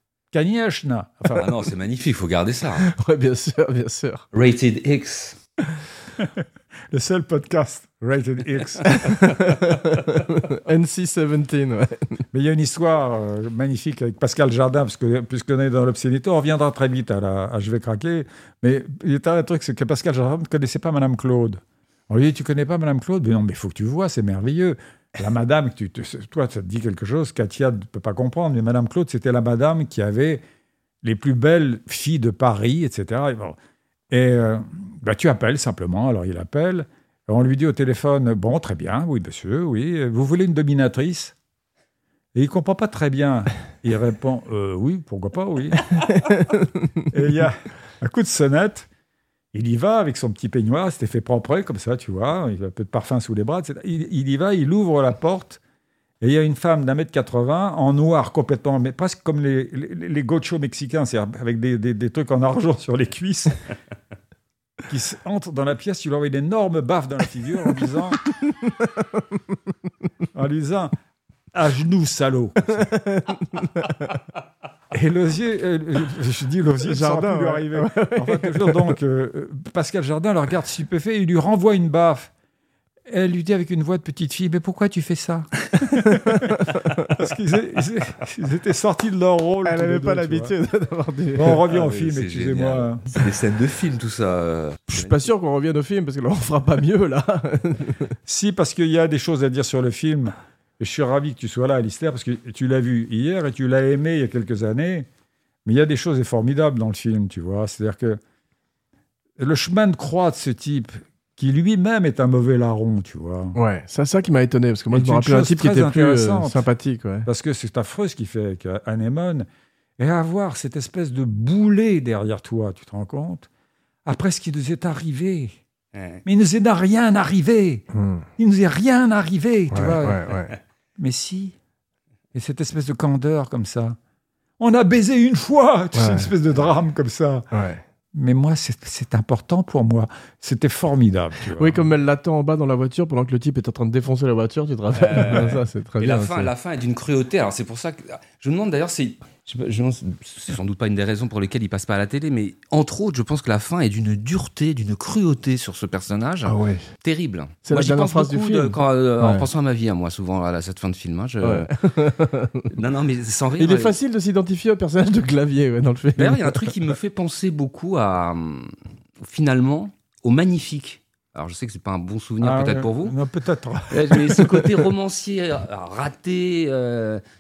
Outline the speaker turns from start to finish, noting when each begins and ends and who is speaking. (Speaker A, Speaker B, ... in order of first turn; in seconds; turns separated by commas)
Speaker A: 0.3-1.7, Speaker B: 1.3-2.9, Speaker C: 2.8-4.3, Speaker B: 4.3-5.4, Speaker A: 6.2-9.2, Speaker C: 8.9-12.2, Speaker A: 12.3-30.4, Speaker A: 31.0-33.6, Speaker A: 34.1-41.4, Speaker A: 42.4-46.0, Speaker C: 46.1-47.0, Speaker A: 47.1-48.9, Speaker A: 49.5-55.6, Speaker A: 56.2-63.6, Speaker A: 64.9-68.2, Speaker C: 68.5-69.4, Speaker A: 70.3-70.9, Speaker A: 71.5-72.9, Speaker C: 72.8-74.2, Speaker A: 74.9-82.3, Speaker C: 76.8-79.0, Speaker A: 83.1-90.5, Speaker C: 86.0-87.0, Speaker C: 89.7-91.6, Speaker A: 91.3-93.1, Speaker B: 91.7-95.3, Speaker C: 94.9-98.2, Speaker A: 98.3-105.1, Speaker A: 105.7-108.2, Speaker A: 109.4-113.6, Speaker C: 113.5-117.3, Speaker A: 114.9-116.7, Speaker A: 117.3-119.5, Speaker A: 120.0-123.5, Speaker A: 124.0-125.6, Speaker B: 125.9-126.2, Speaker A: 126.2-127.8, Speaker C: 127.9-128.3, Speaker A: 128.4-130.3, Speaker C: 129.7-130.5, Speaker A: 131.0-131.6, Speaker A: 132.3-134.0, Speaker A: 134.6-137.5, Speaker C: 135.9-136.3, Speaker C: 137.5-137.8, Speaker A: 138.1-141.8, Speaker C: 141.5-146.5, Speaker B: 144.9-161.7, Speaker C: 156.4-156.9, Speaker C: 157.6-159.5, Speaker C: 161.4-162.7, Speaker B: 162.7-163.9, Speaker C: 163.6-166.8, Speaker B: 166.2-173.2, Speaker A: 172.4-174.9, Speaker B: 173.9-177.2